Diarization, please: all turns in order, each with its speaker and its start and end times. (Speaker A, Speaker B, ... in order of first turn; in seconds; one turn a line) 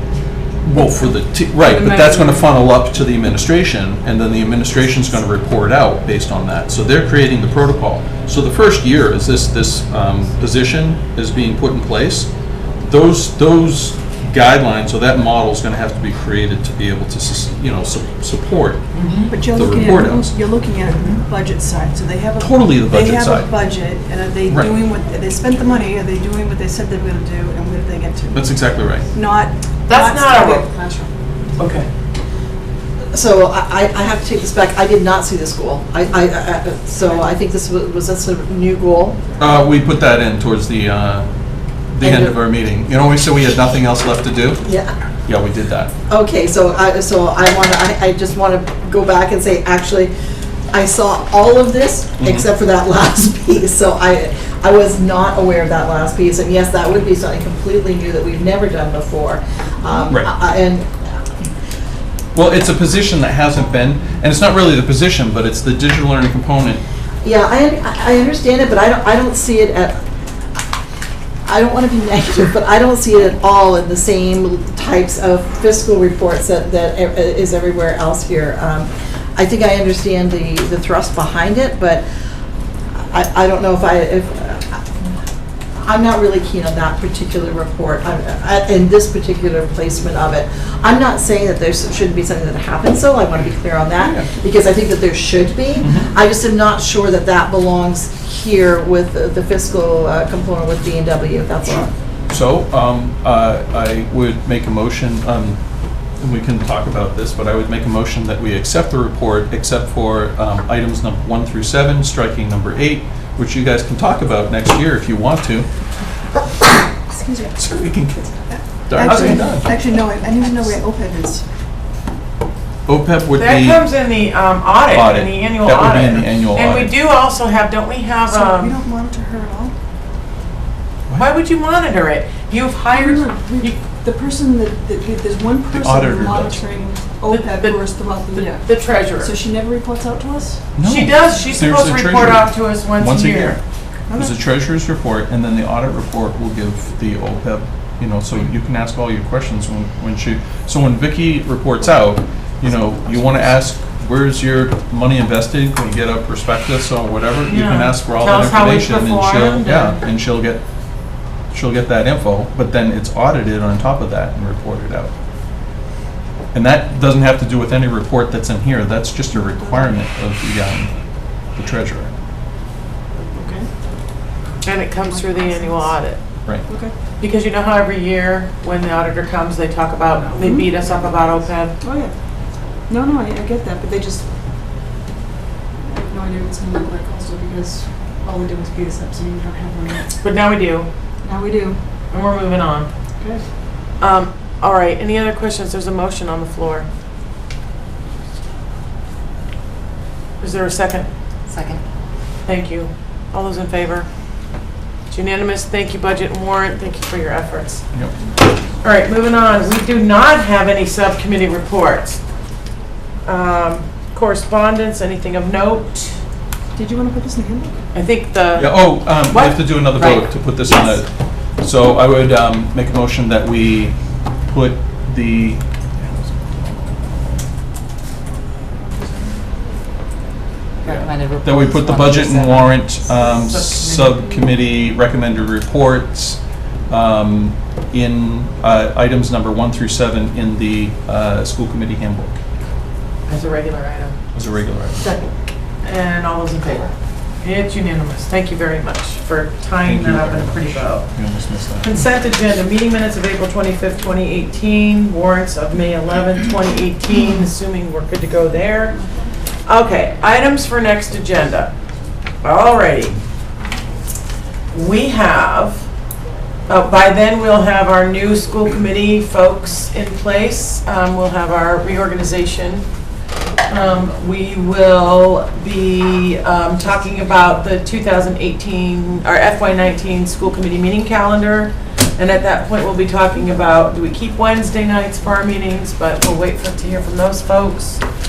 Speaker A: 0.6-12.3
Speaker B: 1.6-2.6
Speaker A: 12.8-20.3
Speaker C: 18.9-19.3
Speaker D: 19.2-28.5
Speaker A: 22.4-23.5
Speaker A: 24.5-24.7
Speaker A: 28.3-29.1
Speaker D: 29.1-31.1
Speaker C: 29.9-30.7
Speaker A: 31.6-31.9
Speaker E: 33.1-39.2
Speaker A: 39.4-41.3
Speaker A: 41.9-44.6
Speaker E: 42.0-42.4
Speaker E: 44.6-45.0
Speaker A: 45.2-45.9
Speaker E: 46.1-50.1
Speaker E: 50.7-61.2
Speaker A: 52.2-52.4
Speaker A: 62.3-66.8
Speaker E: 67.2-70.0
Speaker E: 71.5-82.0
Speaker E: 82.9-85.1
Speaker E: 85.8-101.9
Speaker A: 94.0-94.3
Speaker A: 95.8-96.1
Speaker A: 101.6-105.6
Speaker A: 106.2-115.7
Speaker D: 117.1-117.6
Speaker A: 117.5-119.7
Speaker D: 118.5-121.4
Speaker A: 122.8-123.8
Speaker C: 123.4-128.8
Speaker A: 124.9-127.0
Speaker D: 128.3-129.7
Speaker C: 131.1-133.8
Speaker D: 132.9-138.6
Speaker A: 135.7-136.6
Speaker C: 137.3-139.3
Speaker D: 139.2-140.6
Speaker A: 140.8-143.6
Speaker C: 140.8-143.6
Speaker D: 144.1-144.3
Speaker A: 144.1-160.6
Speaker C: 157.4-160.0
Speaker A: 161.5-165.1
Speaker A: 166.5-170.9
Speaker D: 169.3-169.9
Speaker A: 171.5-172.1
Speaker D: 173.3-173.7
Speaker C: 174.6-176.2
Speaker D: 175.0-176.0
Speaker D: 176.7-176.9
Speaker C: 177.2-181.7
Speaker D: 180.2-181.2
Speaker D: 181.8-182.1
Speaker D: 182.9-184.2
Speaker D: 185.8-190.1
Speaker C: 190.2-190.9
Speaker D: 191.2-191.8
Speaker C: 192.1-192.9
Speaker C: 194.0-196.9
Speaker C: 200.4-201.1
Speaker B: 201.5-201.8
Speaker C: 202.4-204.1
Speaker C: 205.1-207.8
Speaker C: 208.8-212.2
Speaker C: 213.2-216.2
Speaker D: 216.8-217.8
Speaker C: 217.9-220.9
Speaker A: 218.5-221.1
Speaker A: 221.6-223.9
Speaker A: 224.5-226.9
Speaker B: 230.8-232.9
Speaker A: 230.8-242.3
Speaker C: 233.2-234.5
Speaker C: 243.3-244.2
Speaker A: 244.3-245.1
Speaker D: 245.0-245.3
Speaker C: 245.8-246.9
Speaker C: 247.4-251.1
Speaker A: 249.8-252.0
Speaker C: 251.8-259.0
Speaker C: 259.6-261.7
Speaker C: 262.4-263.2
Speaker C: 264.7-265.9
Speaker C: 266.7-272.9
Speaker C: 273.7-288.0